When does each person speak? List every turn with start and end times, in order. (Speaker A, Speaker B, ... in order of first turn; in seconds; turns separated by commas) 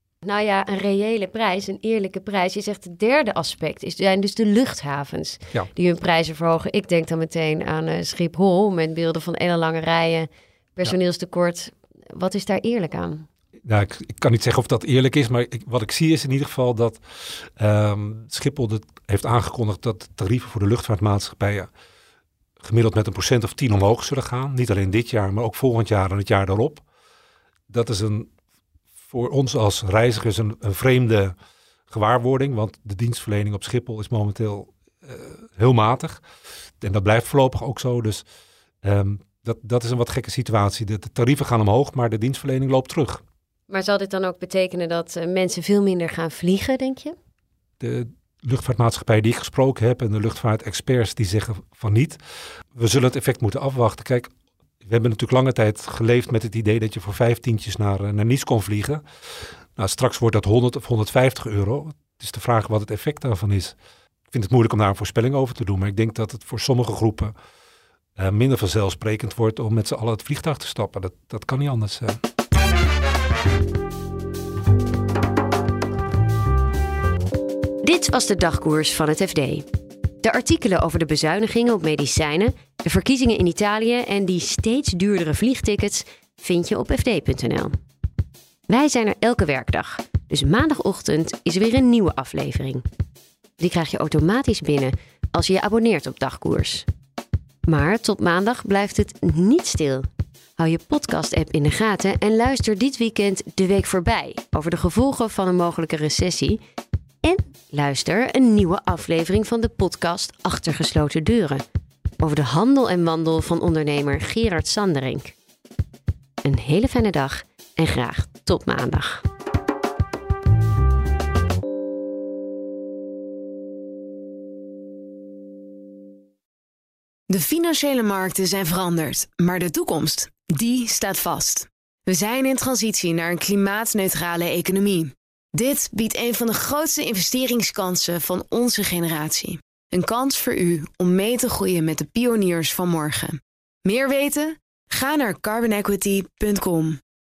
Speaker A: 0.2-13.3, Speaker B: 13.7-21.7, Speaker B: 22.6-26.8, Speaker B: 27.7-28.3, Speaker B: 29.1-31.4, Speaker B: 31.9-36.2, Speaker B: 36.8-38.2, Speaker B: 38.8-43.2, Speaker A: 43.7-47.1, Speaker B: 47.8-52.2, Speaker B: 52.8-54.3, Speaker B: 54.8-59.0, Speaker B: 59.8-63.8, Speaker B: 64.3-67.3, Speaker B: 68.2-72.2, Speaker A: 77.8-79.7, Speaker A: 80.2-87.7, Speaker A: 88.7-92.8, Speaker A: 93.6-96.9, Speaker A: 97.7-100.1, Speaker A: 100.6-106.6, Speaker A: 107.2-111.6, Speaker A: 112.2-115.3, Speaker A: 116.4-119.2, Speaker C: 127.3-147.0